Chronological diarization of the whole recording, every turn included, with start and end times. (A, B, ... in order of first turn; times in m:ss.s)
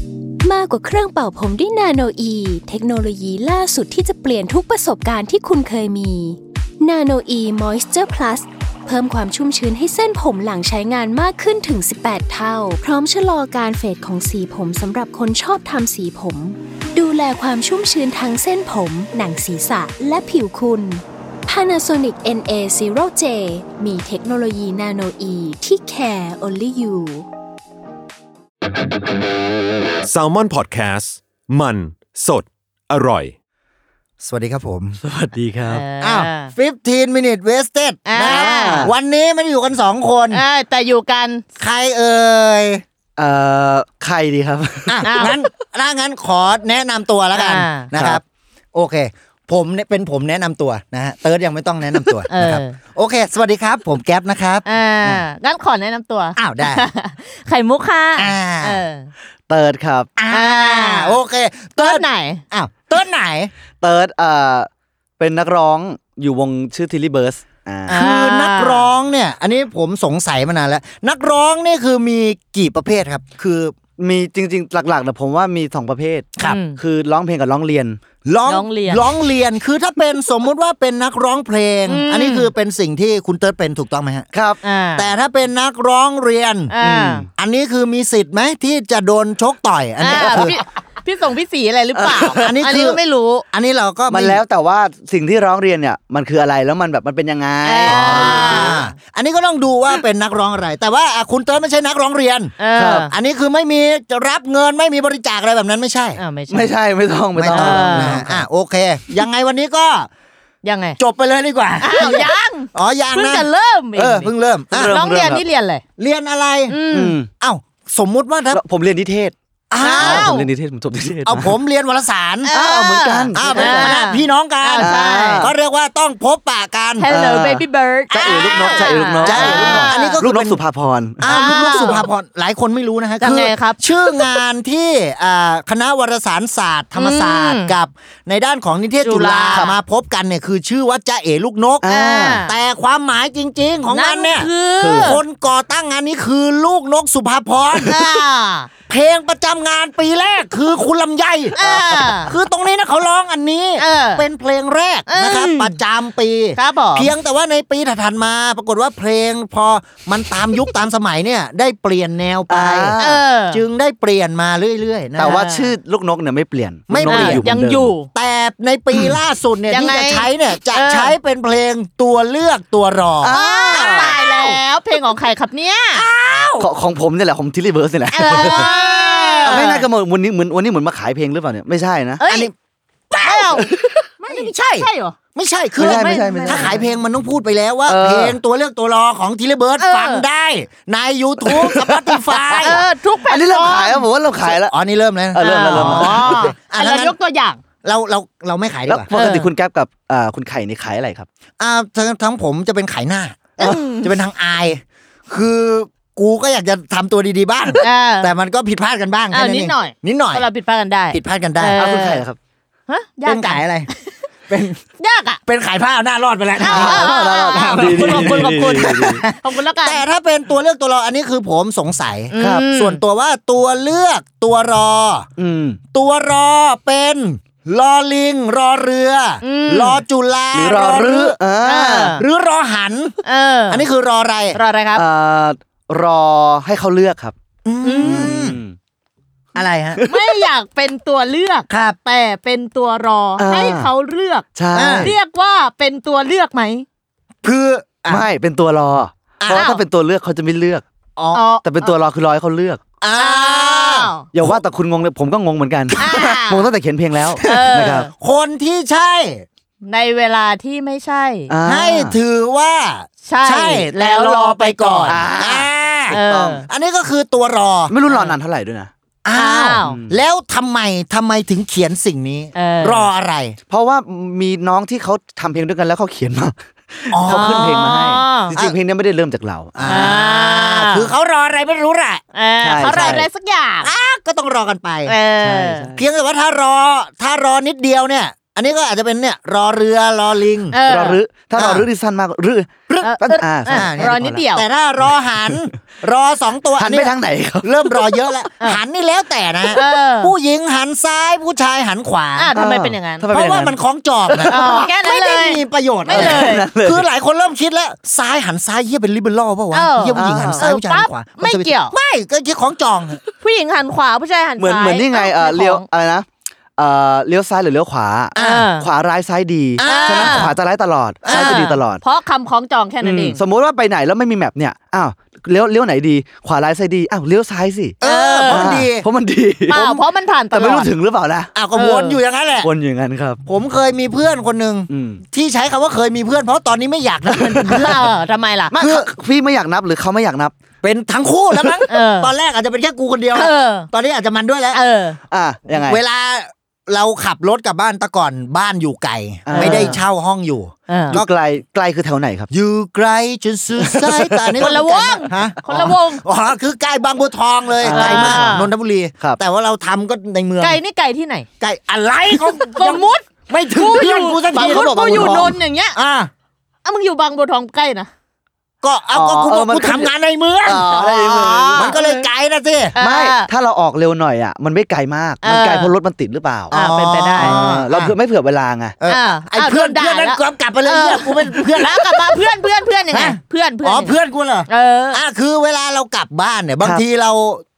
0:00.4-0:27.3 A
0:30.0-0:33.4 B
0:34.2-0:35.0 C
0:35.0-0:35.8 D
0:35.7-0:36.5 E
0:36.0-0:40.4 C
0:38.0-0:38.9 E
0:38.2-0:38.9 D
0:40.3-0:41.4 E
0:41.6-0:42.8 C
0:43.2-0:45.4 D
0:44.9-0:48.2 C
0:45.0-0:45.4 E
0:47.3-0:47.9 E
0:47.9-0:48.2 D
0:48.7-0:54.6 C
0:52.3-0:52.8 E
0:54.6-0:59.1 E
0:56.4-0:56.9 C
0:58.2-0:58.8 C
0:59.5-1:00.1 D
1:00.2-1:03.5 C
1:00.3-1:01.2 E
1:01.8-1:02.4 E
1:03.8-1:04.7 D
1:05.2-1:08.0 D
1:07.9-1:08.9 E
1:07.9-1:13.7 C
1:14.0-1:18.0 D
1:16.4-1:16.8 E
1:18.2-1:24.3 C
1:18.4-1:19.1 E
1:21.9-1:22.5 E
1:24.3-1:24.6 D
1:24.6-1:25.1 E
1:24.9-1:26.7 C
1:26.7-1:27.2 E
1:26.8-1:27.3 D
1:27.4-1:30.6 C
1:30.0-1:33.4 E
1:30.2-1:30.5 D
1:31.9-1:32.5 D
1:32.3-1:33.0 C
1:33.5-1:34.4 C
1:34.1-1:38.8 D
1:37.6-1:38.9 E
1:37.8-1:42.5 C
1:42.6-1:43.1 E
1:42.7-1:43.1 D
1:43.1-1:46.2 C
1:46.2-1:46.7 E
1:46.5-1:48.4 D
1:47.4-1:50.1 C
1:47.5-1:48.3 E
1:50.6-1:51.0 E
1:51.0-1:53.5 C
1:51.8-1:54.3 E
1:54.0-1:55.4 D
1:54.2-1:55.0 C
1:54.8-1:55.8 E
1:56.0-1:56.8 C
1:56.7-1:57.2 E
1:56.9-1:57.3 D
1:57.4-1:58.6 C
1:58.5-1:59.3 D
1:59.7-2:00.3 C
1:59.8-2:00.5 E
1:59.9-2:01.6 D
2:01.2-2:02.6 C
2:02.4-2:05.5 E
2:02.5-2:04.0 D
2:03.3-2:07.1 C
2:04.8-2:05.5 D
2:07.0-2:10.2 E
2:07.1-2:11.4 D
2:08.2-2:10.6 C
2:11.2-2:21.9 C
2:11.2-2:12.1 E
2:13.2-2:14.4 E
2:17.0-2:17.8 E
2:19.0-2:19.8 E
2:21.8-2:22.4 D
2:21.8-2:22.6 E
2:22.4-2:28.0 C
2:23.9-2:25.2 E
2:24.8-2:25.2 D
2:27.8-2:28.7 E
2:28.9-2:31.6 C
2:31.5-2:32.3 E
2:31.6-2:32.1 D
2:32.2-2:43.0 C
2:33.8-2:34.2 E
2:35.1-2:35.8 E
2:36.5-2:37.1 E
2:42.5-2:43.2 D
2:43.0-2:43.6 E
2:43.5-2:45.4 C
2:45.2-2:45.7 E
2:45.2-2:47.9 D
2:46.9-2:47.5 C
2:47.0-2:48.1 E
2:48.1-2:54.6 C
2:49.7-2:51.2 E
2:53.2-2:54.1 D
2:53.3-2:56.1 E
2:55.9-2:56.7 C
2:56.6-2:58.7 D
2:58.1-2:59.8 E
2:58.3-2:59.8 C
2:59.4-3:02.2 D
3:02.2-3:02.5 E
3:02.2-3:02.5 C
3:03.1-3:12.8 C
3:03.2-3:05.2 E
3:05.8-3:06.8 D
3:05.8-3:06.8 E
3:07.8-3:08.4 D
3:09.8-3:10.2 E
3:11.5-3:14.7 D
3:12.6-3:14.1 E
3:14.4-3:17.2 C
3:15.3-3:16.4 D
3:15.4-3:17.6 E
3:17.8-3:19.1 C
3:18.9-3:21.3 D
3:19.1-3:19.5 E
3:21.6-3:30.4 C
3:23.6-3:24.1 E
3:27.8-3:28.3 E
3:29.3-3:32.2 E
3:31.1-3:31.8 C
3:31.7-3:32.4 D
3:32.9-3:34.1 E
3:33.2-3:33.9 C
3:34.5-3:34.8 C
3:35.0-3:35.4 E
3:35.4-3:45.3 C
3:36.6-3:40.0 E
3:36.7-3:39.2 D
3:42.3-3:43.0 E
3:42.4-3:42.7 D
3:45.4-3:45.8 D
3:45.9-3:51.4 C
3:49.4-3:50.0 E
3:50.5-3:52.2 D
3:51.6-3:52.2 E
3:52.2-3:54.6 C
3:53.2-3:53.9 E
3:54.5-3:55.0 E
3:54.9-3:57.3 D
3:57.6-3:58.6 C
3:57.8-3:58.3 E
3:58.0-3:58.8 D
3:59.5-4:00.0 C
4:00.0-4:00.4 D
4:00.1-4:04.4 E
4:01.7-4:02.0 C
4:03.4-4:03.9 D
4:04.5-4:05.2 D
4:04.7-4:05.1 C
4:05.0-4:06.8 E
4:07.4-4:08.3 C
4:08.1-4:10.8 D
4:09.4-4:09.8 C
4:09.5-4:09.8 E
4:11.2-4:11.4 C
4:11.3-4:11.9 E
4:11.6-4:12.8 D
4:13.0-4:14.6 C
4:13.2-4:14.3 E
4:14.3-4:18.1 D
4:15.9-4:16.7 E
4:17.4-4:18.1 E
4:17.4-4:19.4 C
4:19.8-4:21.5 E
4:21.5-4:22.2 D
4:21.6-4:28.0 C
4:23.2-4:25.2 E
4:25.1-4:26.6 D
4:26.1-4:26.6 E
4:27.9-4:28.9 D
4:28.1-4:28.4 E
4:29.2-4:33.6 C
4:29.3-4:30.0 E
4:29.8-4:30.2 D
4:32.5-4:33.1 E
4:33.7-4:40.1 D
4:37.1-4:38.8 C
4:37.3-4:38.5 E
4:39.7-4:42.2 C
4:39.8-4:41.1 E
4:42.3-4:43.9 E
4:42.6-4:43.3 D
4:43.8-4:45.2 C
4:45.1-4:45.9 E
4:45.4-4:46.0 D
4:45.9-4:50.8 C
4:50.7-4:51.2 E
4:50.8-4:54.4 D
4:51.5-4:51.9 C
4:52.9-4:53.1 C
4:53.0-4:54.7 E
4:53.7-5:02.6 C
4:56.8-4:58.3 D
4:59.7-5:00.3 E
5:02.3-5:03.2 E
5:02.5-5:03.8 D
5:03.3-5:13.2 C
5:04.3-5:04.7 D
5:04.4-5:06.6 E
5:06.1-5:07.0 D
5:09.7-5:12.0 E
5:10.1-5:10.6 D
5:13.4-5:15.8 E
5:14.6-5:22.0 D
5:18.3-5:18.7 C
5:18.4-5:18.9 E
5:19.8-5:20.5 C
5:19.8-5:20.5 E
5:21.2-5:21.6 C
5:21.3-5:23.4 E
5:23.0-5:30.0 D
5:28.0-5:29.1 C
5:28.0-5:28.8 E
5:29.7-5:30.9 E
5:29.7-5:30.0 C
5:30.5-5:31.5 D
5:31.5-5:32.7 C
5:31.7-5:32.2 E
5:32.6-5:33.4 D
5:33.4-5:38.1 C
5:34.9-5:35.2 D
5:37.3-5:37.9 D
5:37.6-5:38.8 E
5:38.7-5:40.5 D
5:38.7-5:39.1 C
5:40.8-5:44.8 C
5:41.9-5:42.3 E
5:43.3-5:43.9 E
5:44.7-5:45.2 E
5:45.3-5:46.0 D
5:45.7-5:51.3 C
5:49.4-5:50.0 D
5:49.5-5:50.0 E
5:50.9-5:51.2 E
5:51.1-5:52.5 D
5:52.5-6:00.8 C
5:53.8-5:54.8 D
5:54.6-5:56.2 E
5:57.8-5:58.6 D
5:57.9-5:58.7 E
6:00.6-6:01.4 E
6:01.6-6:06.3 C
6:02.3-6:06.0 E
6:04.5-6:05.6 D
6:06.8-6:08.1 E
6:08.8-6:12.9 C
6:09.1-6:10.1 D
6:10.6-6:11.9 D
6:10.7-6:12.3 E
6:12.9-6:13.5 E
6:13.0-6:16.8 D
6:15.4-6:15.9 E
6:16.7-6:17.6 E
6:16.7-6:18.2 C
6:17.4-6:18.9 D
6:19.0-6:22.5 C
6:19.1-6:24.2 E
6:23.1-6:27.6 C
6:24.7-6:25.2 E